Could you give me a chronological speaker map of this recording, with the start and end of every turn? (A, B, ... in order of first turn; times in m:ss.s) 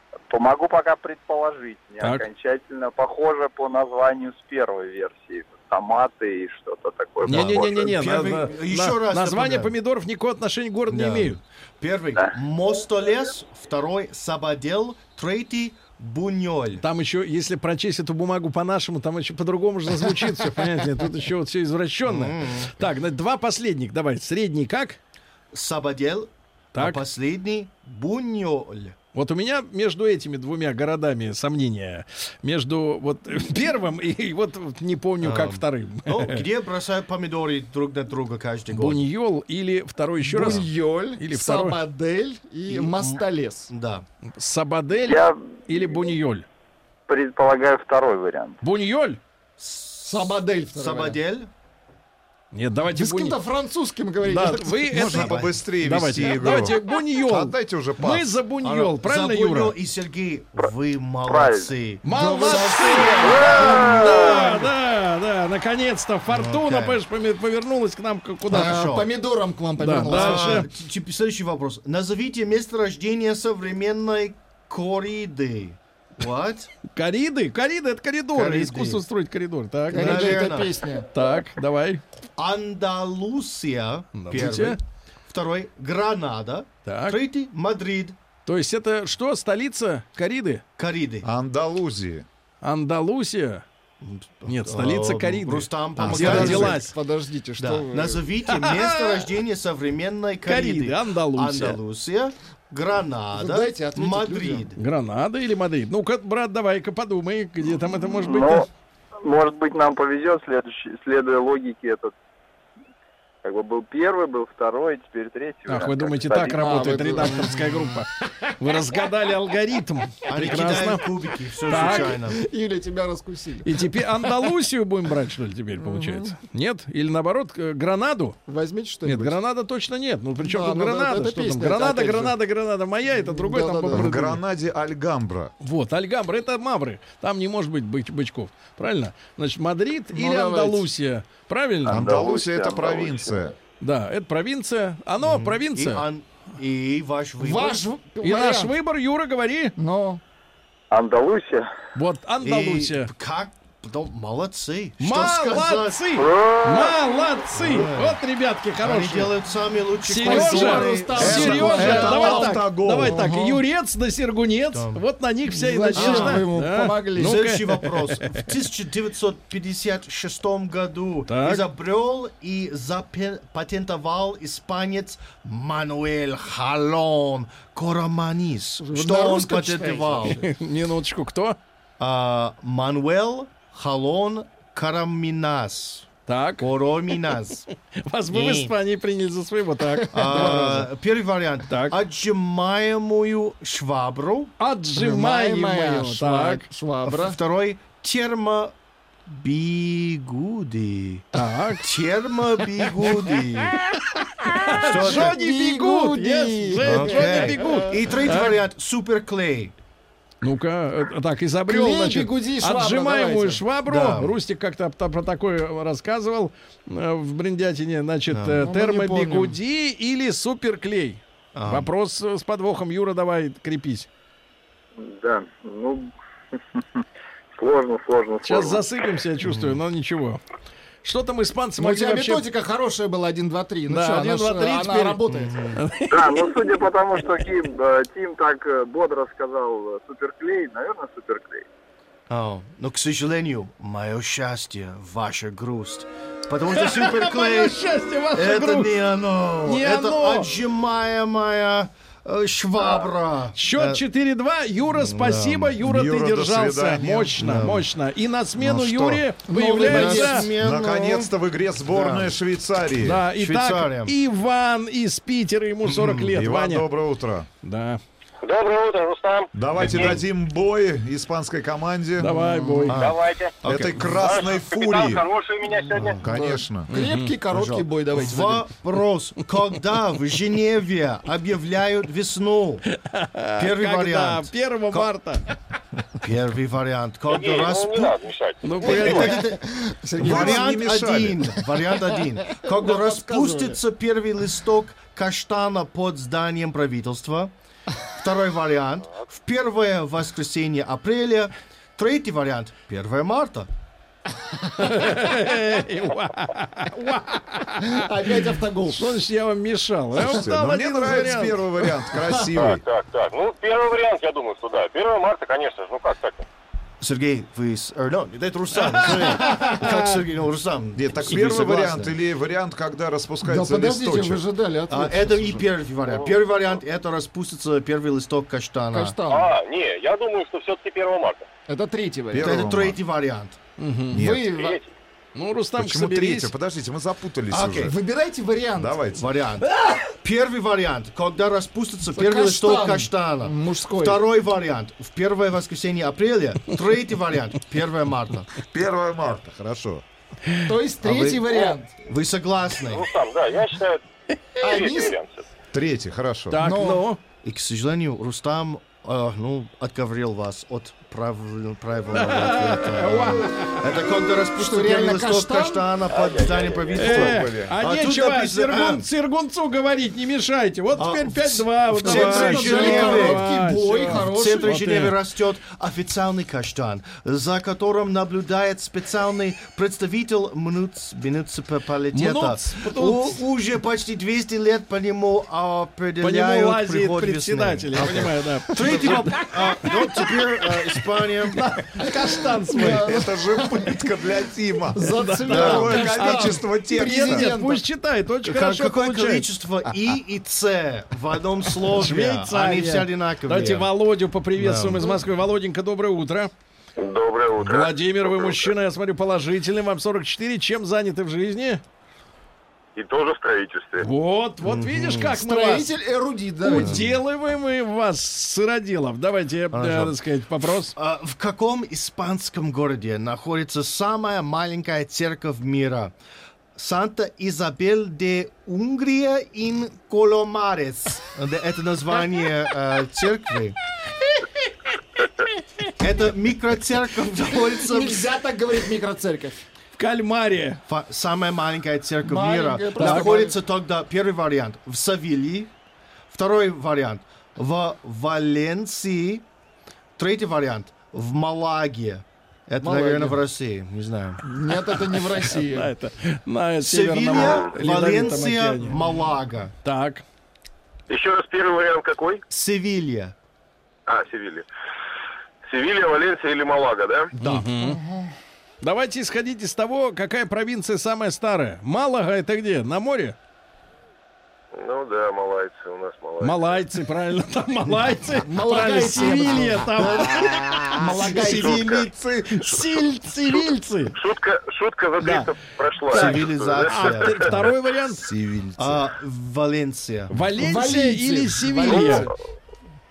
0:00.3-0:08.0 A
0:02.0-0:02.3 B
0:07.2-0:11.4 B
0:07.3-0:09.7 C
0:10.9-0:16.8 C
0:16.8-0:25.0 B
0:22.0-0:22.7 C
0:25.5-0:29.0 C
0:26.8-0:27.0 B
0:29.2-0:36.4 B
0:35.2-0:39.0 C
0:38.7-0:41.8 B
0:40.3-0:43.7 D
0:40.3-0:40.6 C
0:42.7-0:44.0 C
0:44.4-0:46.5 B
0:45.0-0:45.4 A
0:47.1-0:48.6 A
0:48.6-0:49.2 B
0:49.6-0:51.5 C
0:50.0-0:51.2 D
0:52.5-0:53.4 B
0:52.9-0:54.9 D
0:54.2-0:59.8 B
0:54.9-0:58.4 E
0:55.0-0:55.6 C
0:58.6-1:04.7 C
1:01.3-1:01.7 A
1:02.0-1:08.8 B
1:02.1-1:03.8 D
1:03.3-1:04.5 A
1:06.3-1:07.0 C
1:08.5-1:09.1 C
1:08.5-1:10.7 D
1:09.8-1:10.7 B
1:10.1-1:16.7 C
1:16.9-1:20.6 B
1:18.3-1:19.0 C
1:19.9-1:21.1 D
1:19.9-1:20.7 C
1:21.1-1:22.0 B
1:22.4-1:28.2 C
1:24.2-1:24.8 B
1:26.9-1:27.2 B
1:28.5-1:30.6 B
1:30.8-1:31.3 C
1:31.2-1:32.3 E
1:32.6-1:33.6 B
1:34.0-1:36.8 C
1:34.5-1:36.9 B
1:36.0-1:36.8 E
1:36.1-1:38.2 D
1:37.6-1:44.8 C
1:38.5-1:39.2 B
1:40.5-1:41.8 B
1:43.3-1:44.7 D
1:44.8-1:48.6 B
1:48.2-1:48.7 A
1:49.2-1:52.1 A
1:53.4-1:56.7 A
1:55.7-2:01.0 B
1:56.5-1:58.0 D
2:00.3-2:02.4 C
2:01.7-2:02.1 B
2:01.7-2:04.5 D
2:03.6-2:08.4 B
2:05.8-2:06.4 D
2:08.5-2:09.4 D
2:09.0-2:14.4 B
2:10.4-2:12.4 D
2:13.1-2:14.4 D
2:13.9-2:15.5 E
2:15.6-2:22.1 B
2:20.1-2:20.9 D
2:21.9-2:23.6 E
2:21.9-2:23.4 A
2:23.8-2:26.1 B
2:25.2-2:27.8 C
2:27.4-2:28.8 D
2:28.2-2:29.8 B
2:29.8-2:30.2 D
2:30.9-2:31.7 A
2:32.0-2:33.1 B
2:32.4-2:36.0 C
2:35.0-2:39.3 B
2:36.2-2:37.0 A
2:37.5-2:38.2 C
2:38.8-2:42.5 C
2:40.1-2:48.4 B
2:40.2-2:43.6 D
2:41.2-2:43.2 E
2:44.7-2:45.0 C
2:45.5-2:47.4 D
2:46.0-2:46.4 C
2:47.2-3:00.4 C
2:51.3-2:51.6 B
2:58.8-3:00.5 D
3:00.3-3:01.6 B
3:02.0-3:06.1 C
3:06.3-3:07.2 B
3:06.6-3:07.6 C
3:08.0-3:10.9 B
3:08.3-3:08.7 C
3:10.0-3:10.8 D
3:10.1-3:14.5 C
3:11.7-3:12.0 B
3:14.6-3:16.7 B
3:15.0-3:17.4 D
3:17.0-3:18.7 C
3:19.3-3:21.2 C
3:21.3-3:21.9 B
3:21.8-3:23.8 C
3:24.5-3:28.5 B
3:24.7-3:25.4 C
3:25.0-3:28.0 D
3:26.8-3:29.8 C
3:30.4-3:44.1 B
3:31.7-3:33.6 D
3:33.9-3:34.4 C
3:38.3-3:38.6 C
3:38.6-3:39.6 D
3:41.6-3:41.9 C
3:45.0-3:46.1 A
3:46.7-3:47.0 A
3:47.6-3:48.8 A
3:48.4-3:50.4 B
3:49.4-3:49.8 C
3:51.0-3:52.4 B
3:51.8-3:55.7 D
3:53.9-3:55.2 B
3:55.3-3:55.8 C
3:55.8-3:56.4 B
3:56.1-4:01.7 A
4:02.3-4:07.8 C
4:06.7-4:09.0 B
4:08.3-4:14.0 C
4:09.6-4:10.5 B
4:13.6-4:20.5 B
4:14.9-4:15.8 C
4:15.8-4:17.4 E
4:17.4-4:17.9 C
4:19.5-4:20.5 D
4:19.5-4:21.3 C
4:20.6-4:23.2 E
4:21.9-4:22.3 C
4:23.0-4:26.9 B
4:23.4-4:24.2 C
4:25.9-4:26.3 C
4:26.3-4:27.5 E
4:27.6-4:28.0 B
4:28.4-4:30.2 F
4:29.5-4:32.4 E
4:32.2-4:33.0 B
4:32.3-4:32.9 D
4:32.9-4:34.4 C
4:32.9-4:36.2 F
4:33.6-4:35.3 E
4:36.0-4:36.3 C
4:36.2-4:38.7 D
4:36.2-4:36.9 E
4:36.9-4:37.4 B
4:37.5-4:42.8 C
4:42.9-4:45.5 B
4:43.6-4:45.1 C
4:46.2-4:48.2 C
4:47.3-4:49.4 F
4:48.6-4:49.4 B
4:48.8-4:49.6 C
4:49.1-4:50.8 D
4:50.2-4:51.6 E
4:50.2-4:57.5 C
4:52.4-4:53.8 D
4:58.2-5:03.7 C
5:04.8-5:08.0 B
5:07.8-5:09.1 D
5:08.9-5:11.6 B
5:10.2-5:12.8 E
5:12.5-5:16.5 F
5:17.0-5:22.1 C
5:18.8-5:20.2 B
5:21.0-5:24.4 E
5:23.4-5:25.7 D
5:24.9-5:29.2 C
5:26.1-5:26.4 F
5:28.9-5:29.5 D
5:29.3-5:31.5 F
5:31.7-5:32.6 D
5:32.3-5:33.0 E
5:32.4-5:33.6 C
5:33.8-5:34.2 B
5:34.1-5:34.5 E
5:34.1-5:34.8 D
5:34.6-5:34.9 F
5:35.4-5:36.5 B
5:35.8-5:37.9 E
5:37.5-5:37.9 C
5:37.8-5:39.1 D
5:38.8-5:39.2 E
5:39.2-5:39.7 C
5:40.2-5:48.5 C
5:42.1-5:44.2 D
5:48.6-5:50.0 E
5:50.6-5:51.9 D
5:51.0-5:51.4 C
5:52.0-5:53.0 C
5:52.9-5:54.0 F
5:54.6-5:55.4 F
5:54.6-5:55.2 D
5:55.7-5:56.6 E
5:56.5-5:57.2 B
5:56.6-5:57.0 D
5:57.4-6:09.0 C
6:02.1-6:03.8 B
6:04.6-6:05.9 D
6:06.1-6:07.4 F
6:07.0-6:15.2 B
6:07.1-6:07.8 E
6:11.0-6:13.5 C
6:12.0-6:14.8 D
6:14.0-6:31.6 C
6:22.1-6:23.4 B
6:26.2-6:30.3 B
6:31.5-6:33.1 B
6:32.1-6:34.0 D
6:32.8-6:37.5 E
6:34.9-6:37.9 D
6:35.1-6:39.5 B
6:35.5-6:35.9 C
6:38.4-6:43.9 C
6:41.9-6:46.5 B
6:44.6-6:45.2 C
6:47.0-6:48.7 F
6:47.6-6:51.8 B
6:53.0-6:54.1 F
6:54.0-6:55.9 B
6:54.6-6:55.3 C
6:55.3-6:57.0 D
6:56.6-7:00.9 B
6:56.8-6:57.1 C
6:59.7-7:00.2 C
7:00.9-7:06.1 C
7:06.8-7:13.8 C
7:16.0-7:18.3 C
7:17.8-7:19.6 D
7:20.0-7:20.8 B
7:20.9-7:25.7 C
7:22.2-7:23.6 D
7:23.0-7:23.3 B
7:26.3-7:29.4 C
7:30.2-7:34.4 C
7:32.8-7:33.4 D
7:34.4-7:35.9 D
7:35.2-7:39.0 B
7:36.8-7:39.7 C
7:37.3-7:37.7 F
7:39.8-7:40.2 B
7:41.1-7:42.4 F
7:42.5-7:43.4 C
7:44.1-7:44.7 F
7:45.7-7:47.3 F
7:47.4-7:47.7 C
7:47.4-7:48.0 B
7:47.8-7:48.3 D
7:48.8-7:53.4 B
7:54.7-7:56.8 F
7:56.4-8:00.4 B
7:58.4-8:01.9 D
8:00.4-8:03.0 E
8:01.4-8:02.1 F
8:02.5-8:04.2 B
8:04.2-8:07.5 F
8:05.2-8:05.5 B
8:06.1-8:08.3 B
8:06.1-8:07.6 C
8:08.2-8:09.1 E
8:08.8-8:10.3 C
8:10.3-8:12.3 B
8:10.6-8:12.3 D
8:11.9-8:12.3 F